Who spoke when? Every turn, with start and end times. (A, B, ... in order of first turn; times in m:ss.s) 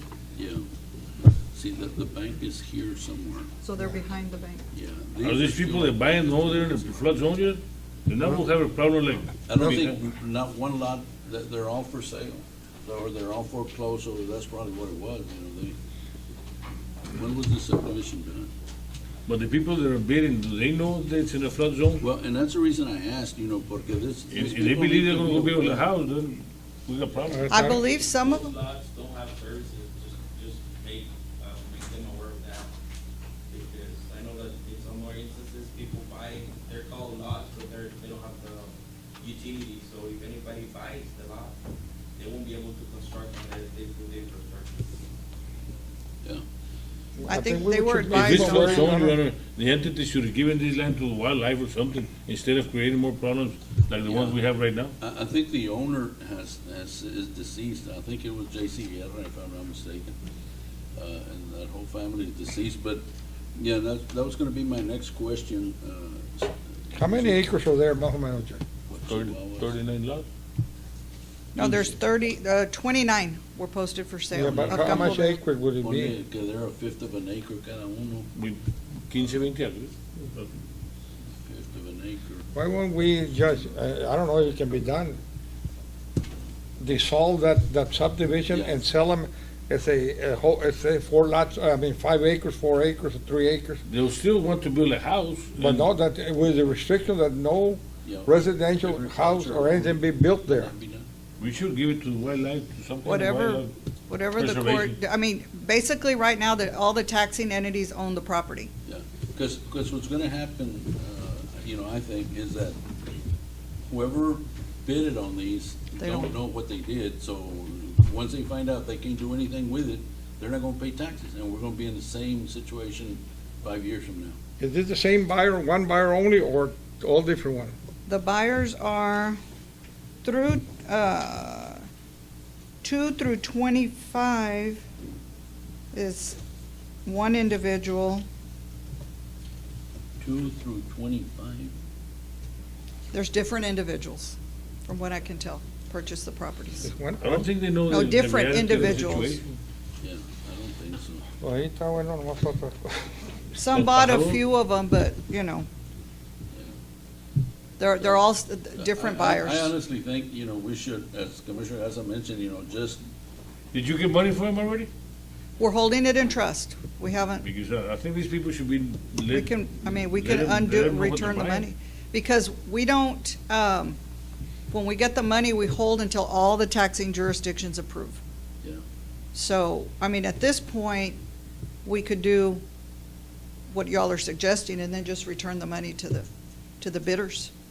0:00.3-0:00.6 A
0:01.5-0:03.5 A
0:03.6-0:04.6 B
0:04.7-0:07.0 A
0:05.2-0:10.0 C
0:09.4-0:15.8 A
0:17.1-0:18.5 A
0:19.3-0:22.0 C
0:22.0-0:25.8 A
0:24.3-0:27.7 C
0:27.3-0:27.8 D
0:27.5-0:28.5 B
0:28.0-0:32.7 E
0:33.5-0:41.6 E
0:42.2-0:45.0 E
0:47.2-0:49.2 D
0:47.2-0:48.9 B
0:48.1-0:54.9 C
0:54.1-0:54.4 A
0:55.0-1:00.2 A
1:00.9-1:03.0 A
1:03.6-1:07.5 A
1:06.9-1:08.6 D
1:08.9-1:09.7 A
1:09.1-1:10.3 C
1:11.5-1:15.4 B
1:11.6-1:11.9 C
1:14.3-1:16.1 D
1:14.4-1:15.2 A
1:15.8-1:18.3 A
1:18.3-1:20.5 C
1:21.4-1:22.4 A
1:22.5-1:25.2 D
1:26.8-1:33.8 D
1:28.5-1:28.8 A
1:33.9-1:35.9 C
1:35.6-1:40.7 D
1:38.0-1:41.0 A
1:41.4-1:43.7 C
1:43.0-1:48.7 B
1:44.3-1:45.0 C
1:48.9-1:52.8 A
1:53.9-2:04.4 A
1:56.0-1:56.3 B
2:04.6-2:07.7 D
2:08.0-2:09.4 B
2:10.2-2:11.8 B
2:12.8-2:14.8 B
2:15.9-2:16.4 B
2:17.0-2:18.2 B
2:20.2-2:21.7 A
2:23.1-2:26.9 B
2:26.8-2:27.5 D
2:27.2-2:29.5 C
2:27.9-2:29.4 B
2:30.0-2:31.3 A
2:31.4-2:33.1 D
2:33.5-2:35.7 B
2:33.7-2:34.4 C
2:37.8-2:39.7 B
2:38.8-2:43.0 A
2:43.7-2:44.9 C
2:45.6-2:47.4 B
2:47.4-2:51.7 C
2:49.3-2:54.0 B
2:54.7-2:58.2 B
2:59.3-3:01.2 B
3:01.8-3:02.6 B
3:03.7-3:06.2 B
3:06.8-3:07.5 B